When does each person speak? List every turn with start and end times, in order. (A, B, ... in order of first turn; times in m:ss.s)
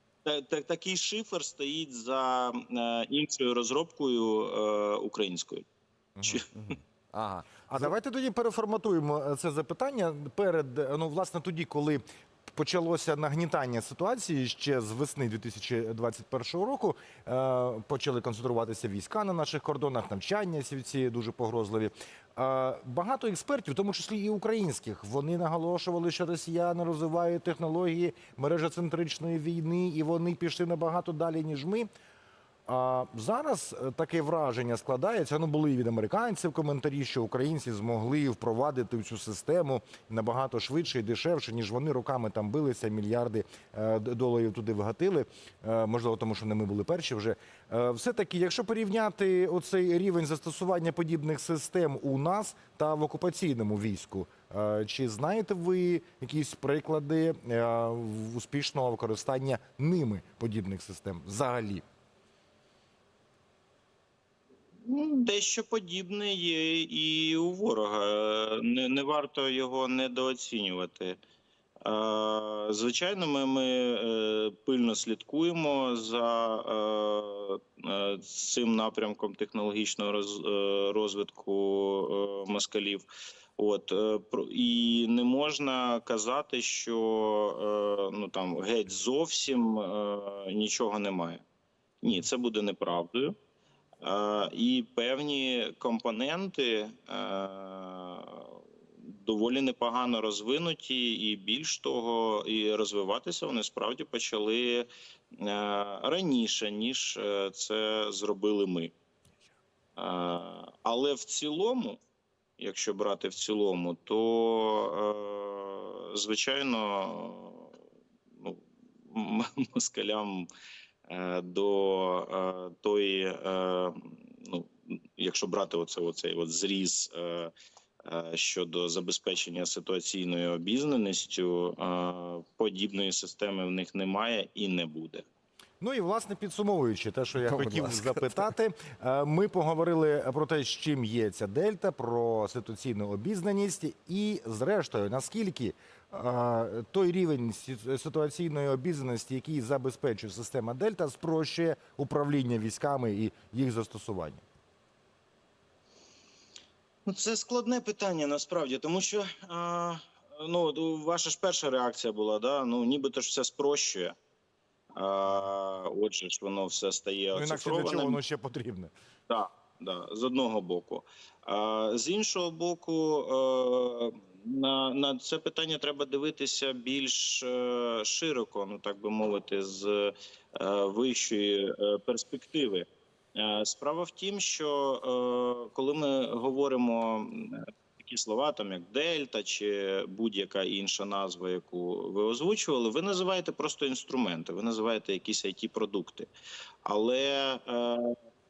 0:00.2-0:05.6 A
0:06.2-0:06.4 B
0:06.5-0:07.9 C
0:07.7-0:31.9 B
0:32.7-1:01.8 B
1:04.8-1:11.2 A
1:11.8-1:23.0 A
1:23.6-1:31.4 A
1:32.0-1:33.3 A
1:34.0-1:48.9 A
1:50.0-1:52.0 A
1:52.6-1:57.7 A
1:58.4-2:00.5 A
2:01.1-2:07.5 A
2:08.1-2:15.2 A
2:15.8-2:34.4 B
2:17.4-2:18.5 C
2:37.1-2:44.1 A
2:45.0-2:48.2 A
2:47.3-2:48.9 B
2:49.3-3:16.3 A
3:16.8-3:18.2 A